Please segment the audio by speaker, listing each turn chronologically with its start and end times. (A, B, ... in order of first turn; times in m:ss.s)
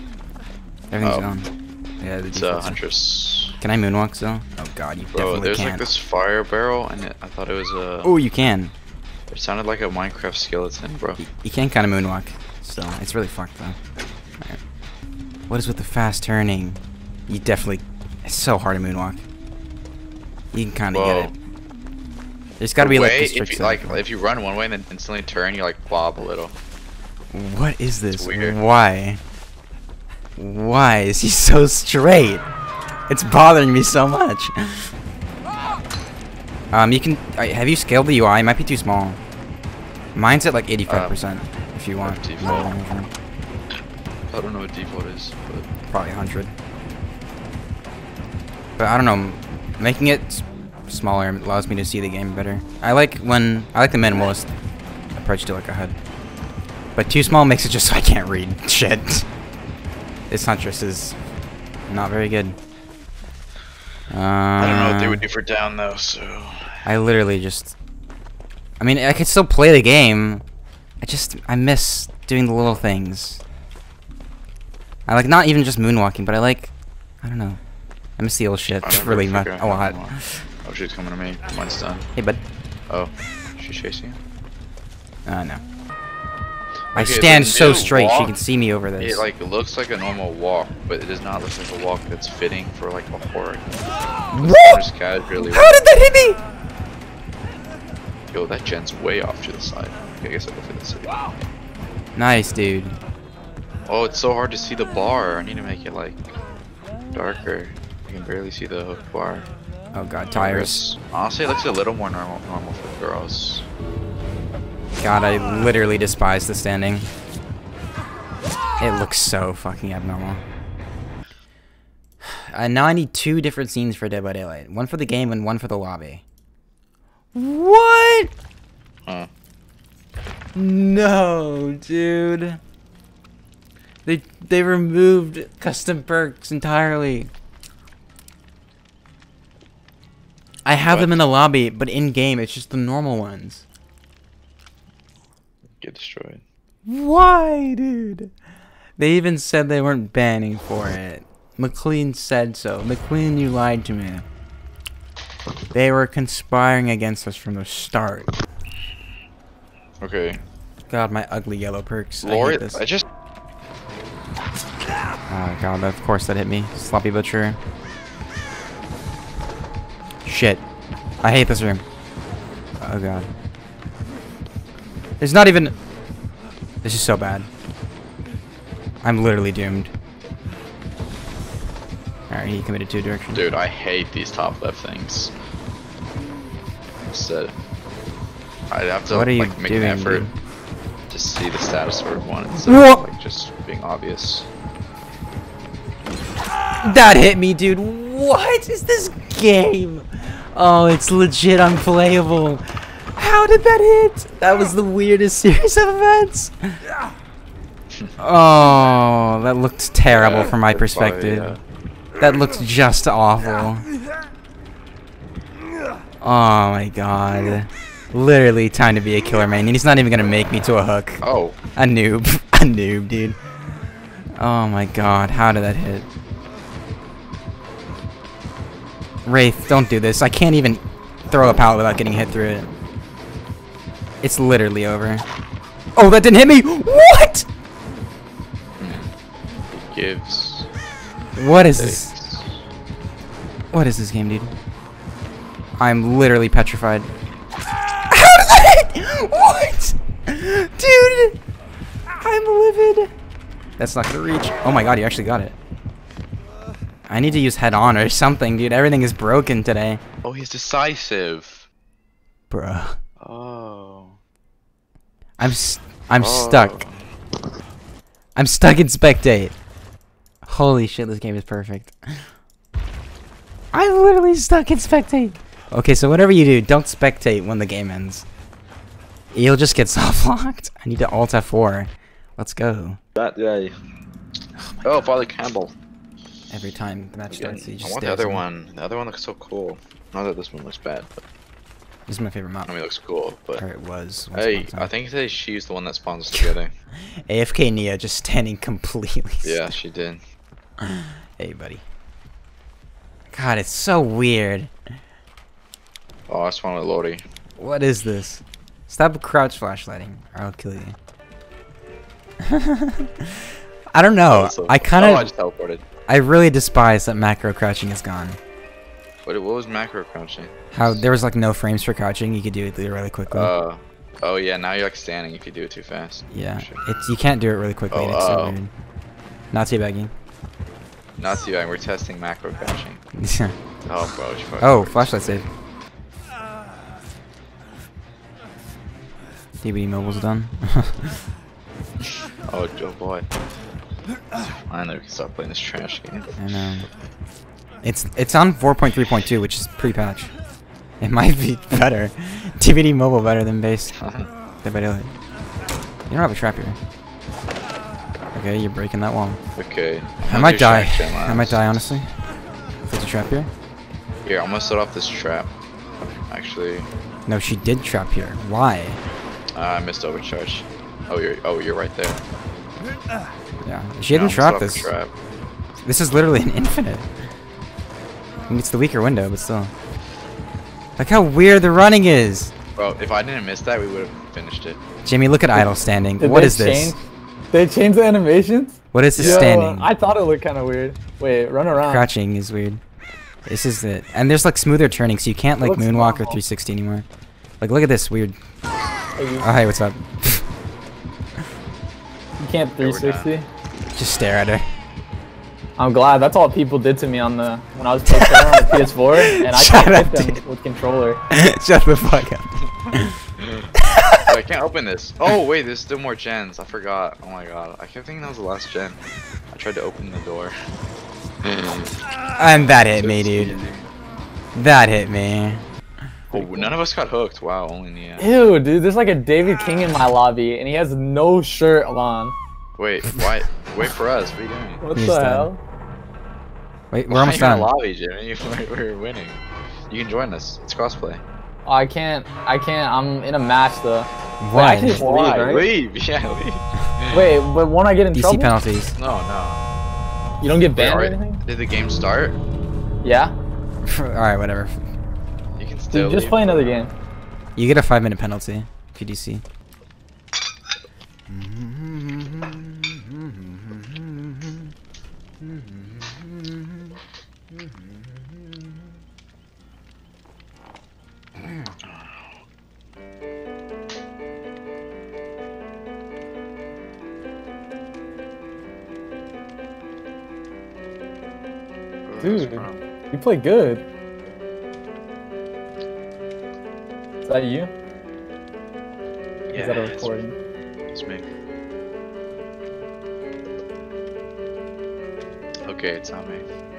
0:00.9-0:02.8 A
0:01.0-0:01.3 B
0:02.3-0:03.6 B
0:03.6-0:05.8 A
0:05.1-0:08.2 B
0:08.0-0:08.7 A
0:09.3-0:11.2 B
0:11.2-0:13.8 A
0:15.5-0:19.2 A
0:20.5-0:21.3 A
0:20.9-0:21.3 B
0:22.6-0:24.0 A
0:22.8-0:26.5 B
0:27.3-0:29.2 A
0:28.2-0:28.6 B
0:30.4-0:32.4 A
0:33.1-0:34.9 A
0:36.7-0:39.2 A
0:40.1-0:43.1 A
0:40.9-0:41.2 B
0:42.0-0:42.7 B
0:44.3-0:45.7 B
0:45.9-0:46.5 A
0:48.8-0:54.5 A
0:55.1-0:56.0 A
0:56.9-0:59.3 A
1:00.3-1:01.2 A
1:01.9-1:02.6 A
1:04.1-1:05.2 A
1:04.6-1:06.8 B
1:06.8-1:07.8 A
1:08.8-1:10.4 A
1:11.0-1:13.4 A
1:15.1-1:17.6 A
1:18.2-1:20.4 A
1:18.8-1:22.1 B
1:22.2-1:22.4 A
1:22.9-1:24.2 B
1:25.2-1:25.6 A
1:26.9-1:28.3 B
1:26.9-1:29.2 A
1:29.0-1:33.8 B
1:34.3-1:34.8 A
1:34.3-1:35.7 B
1:35.4-1:36.4 A
1:38.3-1:41.2 B
1:42.2-1:43.0 A
1:43.8-1:46.3 B
1:47.1-1:49.5 B
1:49.9-1:50.8 A
1:50.3-1:53.6 B
1:55.0-1:57.1 A
1:58.8-2:00.4 A
2:02.2-2:06.2 A
2:07.3-2:08.3 A
2:10.5-2:12.6 A
2:14.0-2:17.3 A
2:20.6-2:23.6 A
2:20.8-2:21.2 B
2:25.8-2:26.4 B
2:26.8-2:28.3 A
2:29.0-2:34.2 A
2:35.7-2:38.3 A
2:40.0-2:40.4 B
2:40.9-2:42.8 A
2:42.2-2:43.0 B
2:45.3-2:47.6 A
2:50.2-2:50.6 A
2:51.2-2:51.8 A
2:52.8-2:53.3 A
2:55.2-2:55.8 A
2:56.8-2:57.5 A
2:59.0-2:59.9 A
3:02.3-3:03.4 A
3:03.3-3:05.3 B
3:07.1-3:07.5 B
3:08.7-3:10.3 B
3:09.1-3:10.3 A
3:11.1-3:14.5 B
3:12.6-3:13.0 A
3:16.8-3:26.8 A
3:28.2-3:31.6 A
3:30.1-3:31.6 B
3:32.2-3:33.9 A
3:36.2-3:41.2 A
3:41.2-3:41.6 B
3:41.8-3:43.4 A
3:44.4-3:46.1 A
3:49.2-3:52.7 A
3:54.2-3:55.2 A
3:55.9-3:57.5 A
3:58.8-3:59.1 B
3:59.7-4:00.7 B
4:01.4-4:02.1 A
4:01.7-4:02.6 B
4:03.7-4:04.5 A
4:05.8-4:07.1 A
4:08.1-4:11.4 A
4:12.1-4:13.1 A
4:13.8-4:15.6 A
4:17.1-4:20.0 A
4:20.2-4:21.7 B
4:22.5-4:23.0 A
4:23.2-4:24.2 B
4:25.4-4:26.8 A
4:26.2-4:27.0 B
4:28.4-4:29.6 A
4:30.4-4:32.3 A
4:33.7-4:38.3 A
4:39.3-4:43.0 A
4:43.2-4:43.7 B
4:44.6-4:45.1 A
4:44.8-4:45.7 B
4:46.5-4:48.4 A
4:47.3-4:51.2 B
4:52.1-4:52.7 A
4:52.6-4:53.6 B
4:53.6-4:54.9 A
4:54.3-4:56.7 B
4:57.2-4:59.7 A
4:59.4-5:00.2 B
5:00.8-5:01.8 A
5:03.3-5:04.7 A
5:06.3-5:07.2 B
5:07.6-5:11.0 A
5:12.4-5:13.4 A
5:13.9-5:15.3 A
5:14.3-5:15.8 B
5:16.1-5:18.4 A
5:19.2-5:21.1 B
5:20.7-5:23.5 A
5:23.3-5:26.8 B
5:26.3-5:28.7 A
5:27.9-5:28.6 B
5:29.5-5:30.1 A
5:31.2-5:33.0 B
5:33.2-5:33.5 A
5:33.8-5:35.4 B
5:34.6-5:35.5 A
5:39.6-5:41.2 A
5:42.5-5:43.2 B
5:44.4-5:46.3 B
5:46.4-5:46.9 A
5:47.8-5:50.3 A
5:51.0-5:53.9 A
5:54.0-5:54.3 B
5:54.6-5:55.2 A
5:56.1-5:56.8 A
5:58.3-5:59.4 A
5:59.6-6:02.0 B
6:00.2-6:02.1 A
6:02.9-6:03.5 A
6:04.2-6:05.5 B
6:06.3-6:06.9 B
6:07.3-6:09.0 A
6:09.5-6:12.2 B
6:13.6-6:14.9 A
6:14.1-6:15.1 B
6:15.8-6:17.1 A
6:18.5-6:19.7 A
6:21.0-6:22.5 A
6:22.8-6:24.8 B
6:25.0-6:27.0 A
6:25.5-6:27.0 C
6:27.5-6:32.1 C
6:28.9-6:29.9 A
6:29.2-6:29.5 B
6:31.7-6:32.8 A
6:33.5-6:37.0 A
6:35.6-6:36.4 C
6:37.6-6:38.4 A
6:39.2-6:39.5 C
6:39.4-6:40.5 A
6:42.4-6:43.5 C
6:42.8-6:43.3 B
6:43.9-6:44.6 A
6:45.8-6:51.2 C
6:48.0-6:50.4 A
6:51.3-6:53.1 A
6:53.4-6:53.7 B
6:53.8-6:54.2 A
6:54.3-7:00.5 B
7:01.4-7:01.9 B
7:02.3-7:03.6 A
7:02.9-7:03.9 B
7:04.5-7:05.6 A
7:06.3-7:08.2 B
7:06.3-7:06.7 C
7:08.2-7:12.4 C
7:12.8-7:14.8 B
7:14.8-7:15.6 C
7:15.0-7:15.5 A
7:16.9-7:17.7 A
7:17.1-7:21.2 B
7:21.6-7:25.7 C
7:24.4-7:25.0 A
7:24.9-7:27.3 B
7:27.1-7:28.5 C
7:28.1-7:29.0 A
7:29.0-7:29.6 B
7:30.4-7:31.4 C
7:30.7-7:32.4 B
7:33.0-7:33.3 C
7:33.8-7:34.8 A
7:35.6-7:36.7 B
7:35.9-7:36.9 C
7:37.6-7:39.4 A
7:41.3-7:44.7 A
7:45.4-7:47.0 A
7:47.5-7:47.9 A
7:51.8-7:52.2 B
8:02.0-8:02.8 B
8:02.2-8:03.8 C
8:07.2-8:07.7 C
8:09.5-8:10.2 B
8:09.5-8:10.4 C
8:10.9-8:11.2 B
8:15.6-8:16.4 B